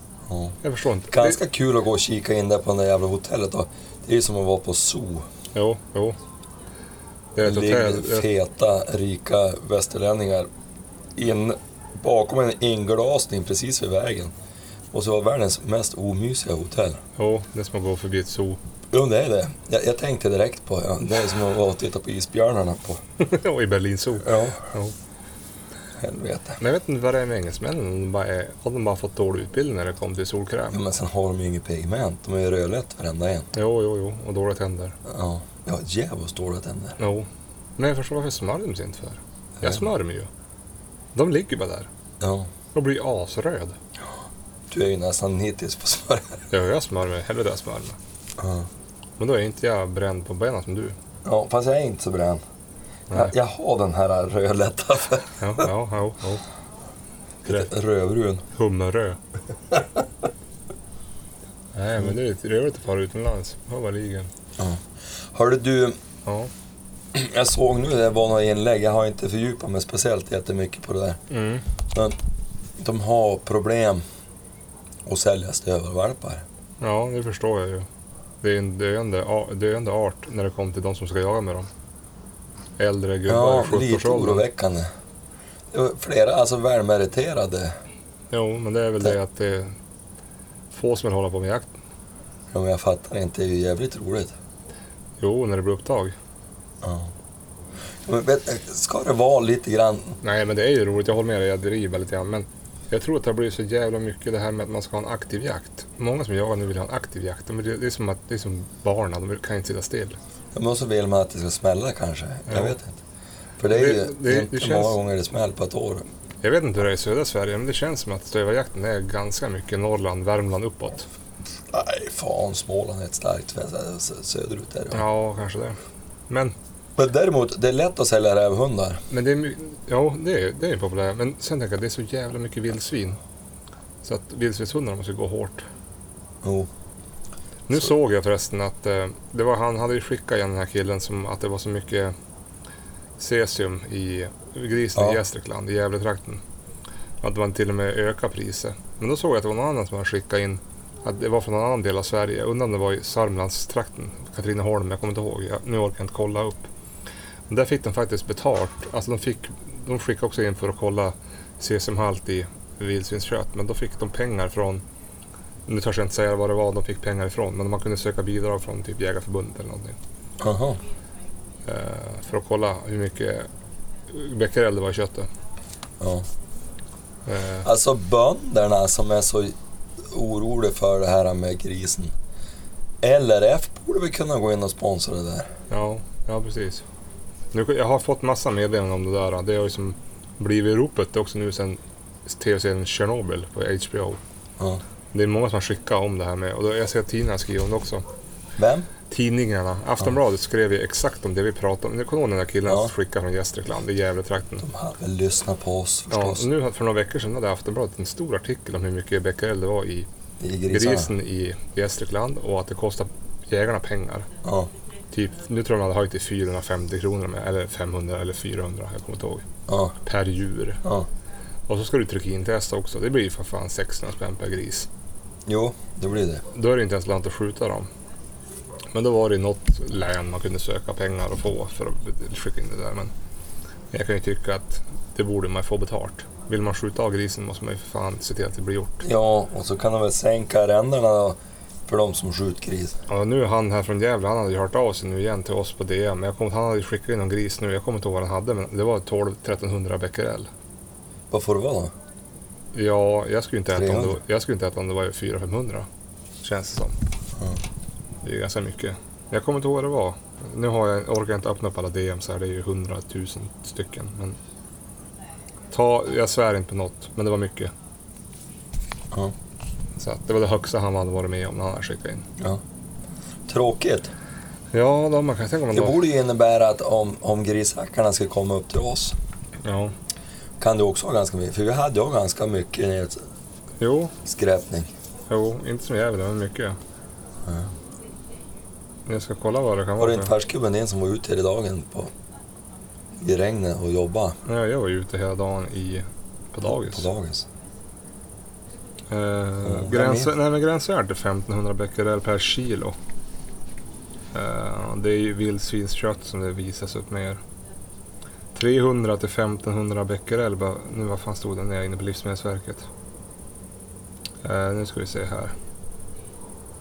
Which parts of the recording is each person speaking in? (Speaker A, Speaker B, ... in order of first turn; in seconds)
Speaker A: 0.3-0.6, 1.1-5.3, 7.4-10.5, 11.2-14.3, 14.9-17.0, 18.9-23.0, 24.2-24.6, 26.0-26.6, 30.7-33.5, 35.0-37.0, 39.6-39.9, 42.2-42.5, 44.7-46.5, 48.4-48.7, 51.2-52.4, 53.1-55.7, 57.4-58.4, 64.6-64.8, 65.3-66.0, 67.1-71.2, 72.8-74.0, 75.0-76.4, 83.3-84.9, 85.7-87.7, 92.5-94.3, 96.8-97.1, 98.0-100.2, 110.5-113.0, 113.6-116.0, 121.7-125.0, 127.0-129.0, 136.4-136.7, 144.9-145.2, 170.4-170.8, 176.0-176.2, 177.6-182.1, 183.0-185.5, 198.6-198.9, 202.7-202.9, 204.6-206.5, 210.4-211.1, 214.4-214.7, 219.7-219.9, 225.5-226.4, 239.0-242.9, 251.3-251.9, 253.7-254.2, 273.5-274.1, 275.7-279.2, 280.6-283.2, 284.2-284.9, 287.4-287.7, 290.0-292.1, 293.2-294.4, 296.7-297.5, 299.6-300.3
Speaker B: 0.6-1.4, 5.5-6.2, 7.3-8.3, 17.2-18.6, 23.2-24.9, 26.6-30.8, 33.5-35.0, 37.0-40.3, 41.1-41.9, 42.7-43.8, 46.5-48.0, 49.2-51.0, 55.4-56.4, 58.5-59.2, 61.7-64.3, 71.3-71.6, 76.8-77.9, 78.4-81.7, 82.8-84.4, 88.3-89.7, 90.7-91.7, 95.2-96.1, 100.2-110.2, 112.5-112.7, 113.7-115.0, 116.4-121.1, 124.9-125.8, 126.3-126.5, 129.1-133.2, 134.0-135.6, 137.7-142.1, 143.2-146.4, 147.2-156.7, 157.5-164.8, 165.7-170.0, 171.7-173.5, 174.1-175.3, 177.3-177.7, 185.7-186.8, 187.5-194.2, 195.1-198.0, 199.1-204.7, 206.1-210.1, 210.7-214.3, 215.1-219.4, 220.0-220.8, 221.7-224.9, 226.5-227.9, 228.9-233.1, 233.9-239.1, 243.1-250.5, 252.7-255.9, 256.4-256.9, 258.2-264.4, 265.7-267.7, 270.0-272.3, 274.7-276.0, 279.6-279.9, 283.8-284.1, 285.3-286.8, 289.1-290.3, 294.4-297.1, 299.1-302.9, 304.3-307.4, 308.5-312.9, 314.4-315.5